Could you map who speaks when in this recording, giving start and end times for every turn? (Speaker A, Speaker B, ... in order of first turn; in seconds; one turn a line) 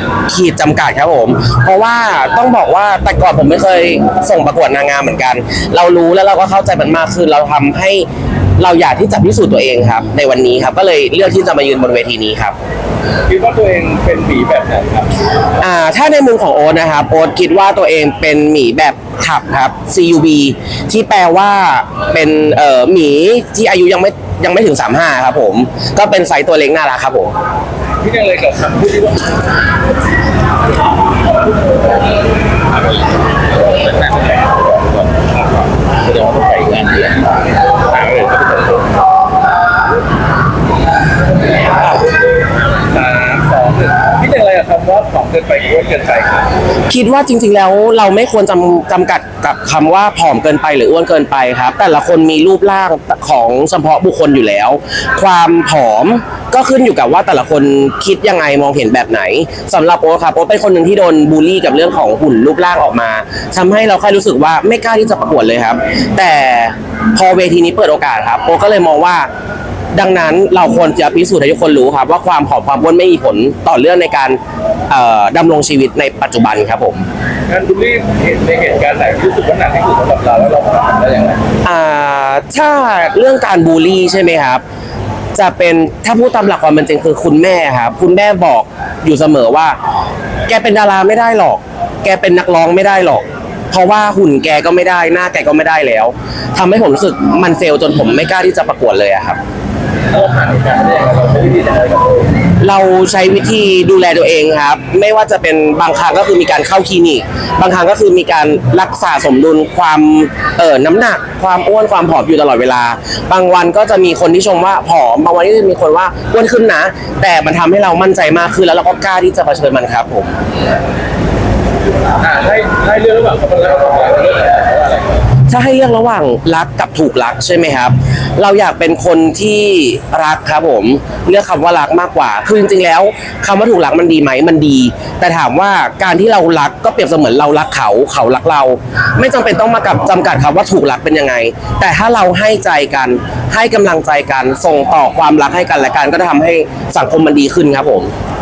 Speaker A: 0.3-8.1
Speaker A: 8.6-12.6
Speaker B: 13.3-15.1
Speaker A: 15.6-27.3
Speaker B: 28.0-29.4
Speaker B: 32.9-38.9
Speaker B: 42.9-46.5
Speaker A: 46.9-69.3
Speaker A: 70.0-74.4
Speaker A: 74.9-77.0
Speaker B: 77.5-81.4
Speaker A: 81.6-84.6
Speaker A: 85.3-89.8
Speaker A: 90.5-99.4
Speaker B: 100.1-102.3
Speaker A: 102.6-120.4
Speaker B: 122.2-125.2
Speaker A: 125.5-148.1